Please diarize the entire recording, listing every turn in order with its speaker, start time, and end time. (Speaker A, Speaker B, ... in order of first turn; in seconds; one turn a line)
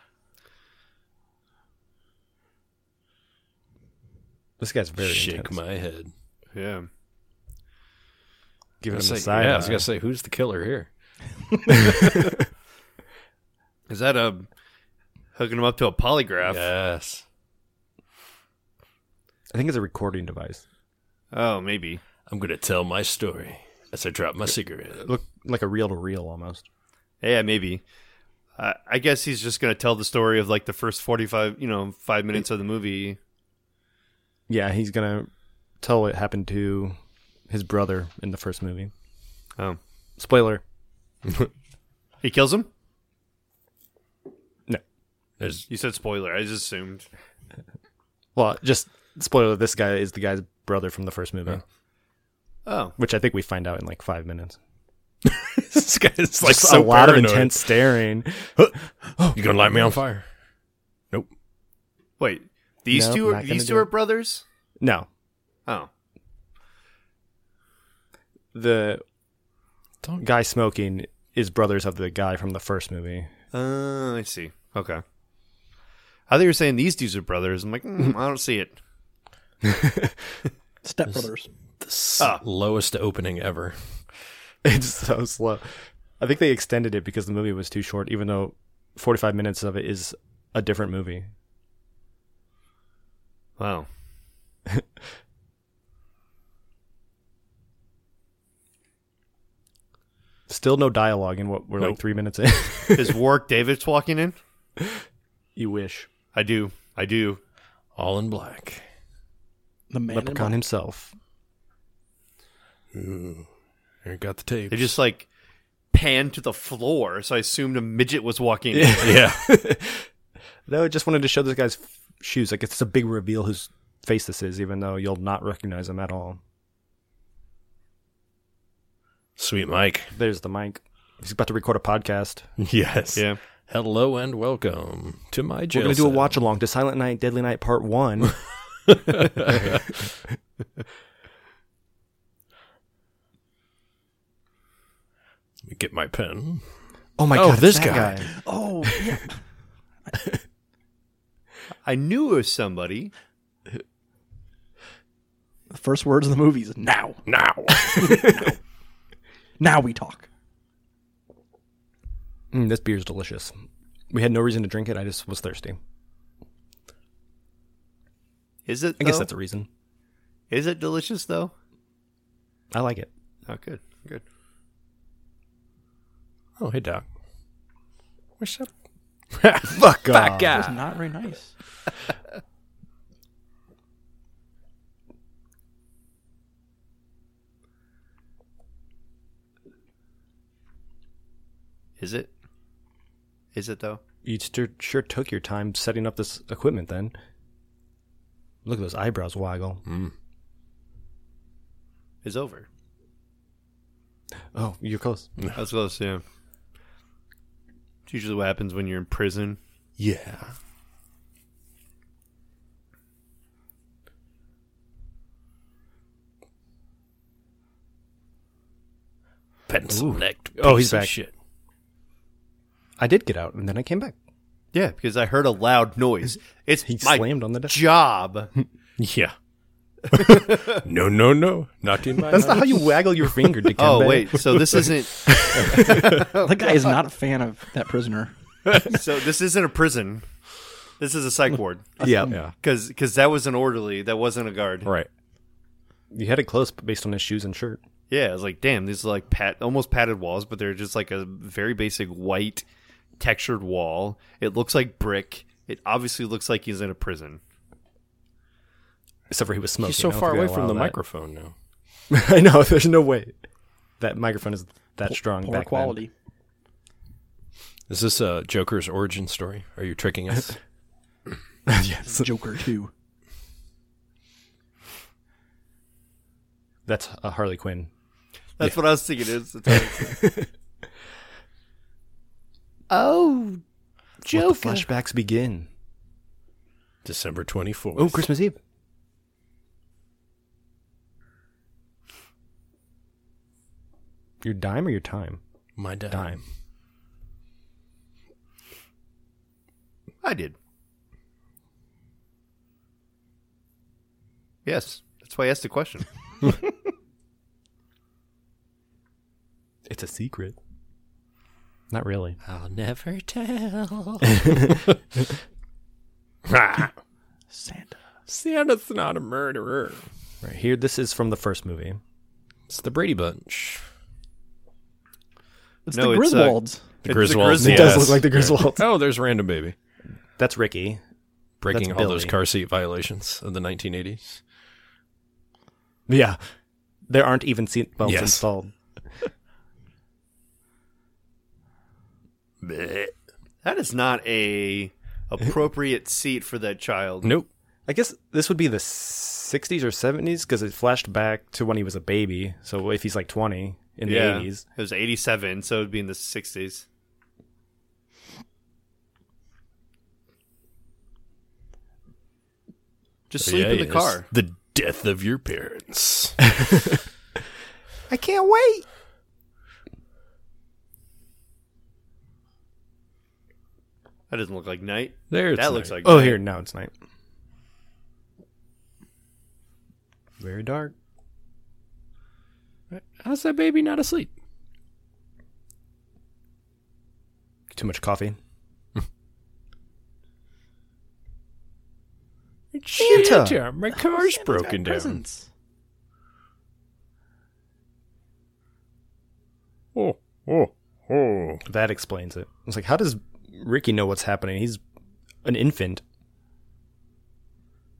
Speaker A: 4.6-5.6
Speaker B: 5.0-6.1
Speaker C: 6.5-6.9
Speaker A: 8.8-9.9
Speaker B: 8.9-10.9
Speaker A: 11.7-12.2
Speaker C: 13.9-14.5
Speaker C: 15.3-16.7
Speaker B: 16.5-17.2
Speaker A: 19.5-20.6
Speaker C: 21.3-22.0
Speaker B: 22.3-25.1
Speaker A: 25.0-26.6
Speaker C: 27.2-27.8
Speaker C: 28.6-33.2
Speaker A: 34.5-35.3
Speaker A: 35.8-37.0
Speaker A: 37.5-38.9
Speaker A: 40.2-40.6
Speaker C: 42.2-42.7
Speaker B: 45.4-45.7
Speaker C: 45.7-47.1
Speaker A: 48.4-51.6
Speaker C: 52.7-53.0
Speaker A: 53.0-54.6
Speaker B: 55.2-57.9
Speaker A: 56.4-59.4
Speaker B: 58.6-60.3
Speaker C: 62.2-64.4
Speaker A: 62.9-63.9
Speaker A: 64.8-65.1
Speaker A: 68.5-69.0
Speaker A: 70.2-73.3
Speaker C: 73.5-75.0
Speaker C: 76.3-78.8
Speaker A: 79.6-80.4
Speaker D: 80.8-81.5
Speaker B: 81.8-84.0
Speaker A: 84.6-91.3
Speaker C: 93.6-93.9
Speaker A: 100.5-103.2
Speaker C: 103.0-104.4
Speaker A: 105.6-106.1
Speaker C: 106.3-107.4
Speaker B: 108.0-108.8
Speaker D: 109.9-110.6
Speaker A: 110.1-111.1
Speaker B: 112.9-113.5
Speaker B: 114.0-114.9
Speaker C: 114.7-115.3
Speaker C: 115.9-119.2
Speaker A: 118.7-120.1
Speaker B: 119.0-119.5
Speaker A: 120.7-126.4
Speaker B: 129.4-130.1
Speaker A: 130.1-132.5
Speaker B: 132.6-136.4
Speaker A: 135.7-138.4
Speaker B: 138.9-139.8
Speaker B: 145.6-146.7
Speaker A: 147.2-148.3
Speaker B: 147.3-148.3
Speaker D: 148.3-149.4
Speaker C: 151.8-153.1
Speaker D: 155.7-158.6
Speaker B: 157.3-158.3
Speaker D: 159.6-160.3
Speaker A: 162.5-163.5
Speaker A: 164.1-165.8
Speaker C: 168.7-169.3
Speaker A: 169.0-169.7
Speaker C: 170.5-171.5
Speaker A: 172.7-173.1
Speaker C: 173.5-174.2
Speaker B: 176.6-177.0
Speaker B: 178.4-178.7
Speaker B: 179.3-179.8
Speaker A: 179.7-180.8
Speaker D: 180.1-181.5
Speaker C: 192.0-192.3
Speaker C: 193.5-194.0
Speaker A: 194.2-197.2
Speaker A: 198.7-199.8
Speaker B: 199.9-200.1
Speaker C: 202.2-202.7
Speaker A: 204.5-205.3
Speaker C: 205.5-206.2
Speaker C: 208.1-209.6
Speaker B: 210.0-210.5
Speaker B: 219.7-221.3
Speaker A: 219.9-221.1
Speaker A: 223.0-224.2
Speaker C: 224.7-228.5
Speaker A: 226.8-227.8
Speaker B: 229.0-229.3
Speaker B: 230.1-233.7
Speaker C: 230.2-230.8
Speaker D: 232.2-232.8
Speaker A: 232.3-234.5
Speaker C: 233.8-236.6
Speaker B: 235.4-236.2
Speaker A: 235.5-236.2
Speaker D: 236.1-238.3
Speaker B: 238.7-238.9
Speaker C: 238.9-240.2
Speaker C: 241.0-242.0
Speaker D: 242.0-242.4
Speaker A: 242.0-242.4
Speaker C: 242.6-244.9
Speaker A: 246.1-247.8
Speaker C: 248.1-252.7
Speaker C: 253.2-257.4
Speaker A: 259.3-261.0
Speaker B: 259.8-261.5
Speaker A: 262.1-263.4
Speaker A: 264.0-266.0
Speaker D: 265.1-266.1
Speaker B: 267.9-270.6
Speaker A: 271.7-272.3
Speaker D: 272.1-272.9
Speaker A: 276.9-277.9
Speaker C: 278.6-280.3
Speaker A: 280.0-280.5
Speaker C: 282.9-283.6
Speaker A: 284.2-285.7
Speaker C: 284.3-284.9
Speaker B: 287.1-288.2
Speaker A: 288.0-288.6
Speaker A: 294.4-295.4
Speaker B: 295.8-296.4
Speaker A: 296.1-296.4
Speaker C: 300.2-300.6
Speaker C: 304.6-306.1
Speaker A: 309.9-310.6
Speaker A: 311.9-312.4
Speaker B: 312.4-314.9
Speaker A: 314.4-314.7
Speaker B: 316.5-316.9
Speaker D: 317.5-318.0
Speaker B: 318.3-320.1
Speaker A: 320.4-322.0
Speaker B: 322.7-323.9
Speaker D: 325.9-326.9
Speaker C: 325.9-328.3
Speaker B: 327.1-329.8
Speaker A: 327.6-328.9
Speaker A: 330.4-331.0
Speaker B: 331.6-334.4
Speaker A: 331.7-332.4
Speaker A: 336.1-336.4
Speaker A: 337.1-338.7
Speaker B: 338.0-338.4
Speaker B: 342.6-343.1
Speaker C: 343.6-347.3
Speaker B: 347.2-347.5
Speaker A: 347.9-354.6
Speaker C: 354.1-356.9
Speaker C: 363.3-364.3
Speaker B: 363.4-366.4
Speaker A: 366.6-366.9
Speaker A: 368.1-368.9
Speaker C: 374.3-376.4
Speaker B: 375.3-375.9
Speaker A: 376.0-376.9
Speaker A: 380.4-380.9
Speaker B: 382.9-384.3
Speaker A: 387.7-388.4
Speaker B: 392.7-395.2
Speaker A: 393.0-393.6
Speaker D: 393.9-395.5
Speaker B: 399.9-401.6
Speaker A: 401.7-404.8
Speaker A: 405.4-406.0